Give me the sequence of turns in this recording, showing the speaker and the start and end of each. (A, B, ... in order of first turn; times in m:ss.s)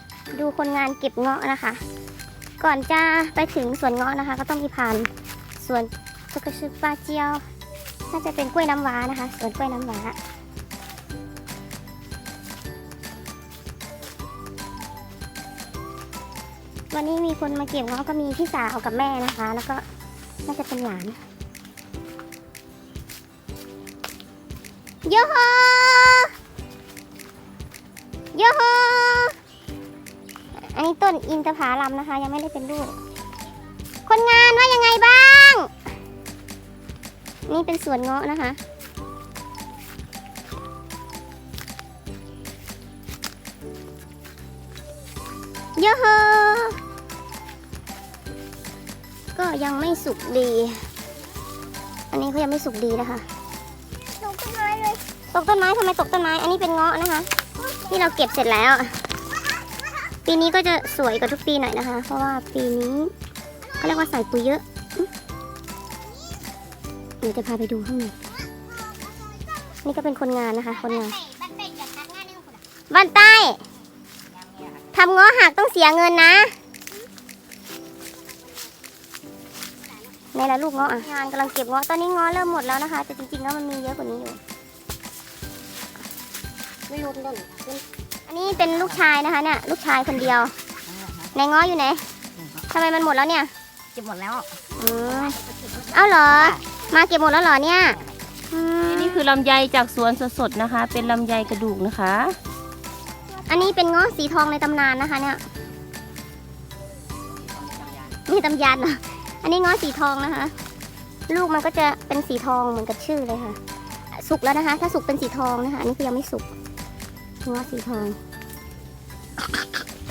0:00.3-0:01.8 A
0:02.6-0:07.4 A
0:08.1-0:10.2 A
0:16.9-0:19.8 A
0:20.5-0:21.2 A
0:25.0-0:26.3 A
0:28.3-0:29.4 A
0:30.6-0:33.0 A
0:34.1-0:35.7 A
0:37.5-0:38.6 A
0:45.8-0:46.8 A
0:49.4-0:50.8 A
0:52.1-0:53.3 A
0:54.2-0:59.0 A
1:00.2-1:03.1 A
1:03.7-1:05.1 A
1:07.2-1:08.2 A
1:08.9-1:09.4 B
1:09.8-1:11.3 A
1:11.3-1:12.6 B
1:12.9-1:13.6 A
1:14.9-1:16.6 A
1:20.3-1:24.4 A
1:26.9-1:27.3 A
1:26.9-1:27.8 B
1:28.3-1:30.5 A
1:31.3-1:32.1 A
1:32.6-1:33.5 A
1:34.0-1:34.5 B
1:34.8-1:38.0 A
1:38.5-1:39.2 A
1:38.9-1:42.4 C
1:43.4-1:45.4 A
1:48.1-1:50.6 A
1:51.3-1:53.6 A
1:54.1-1:56.5 A
1:57.4-1:58.2 A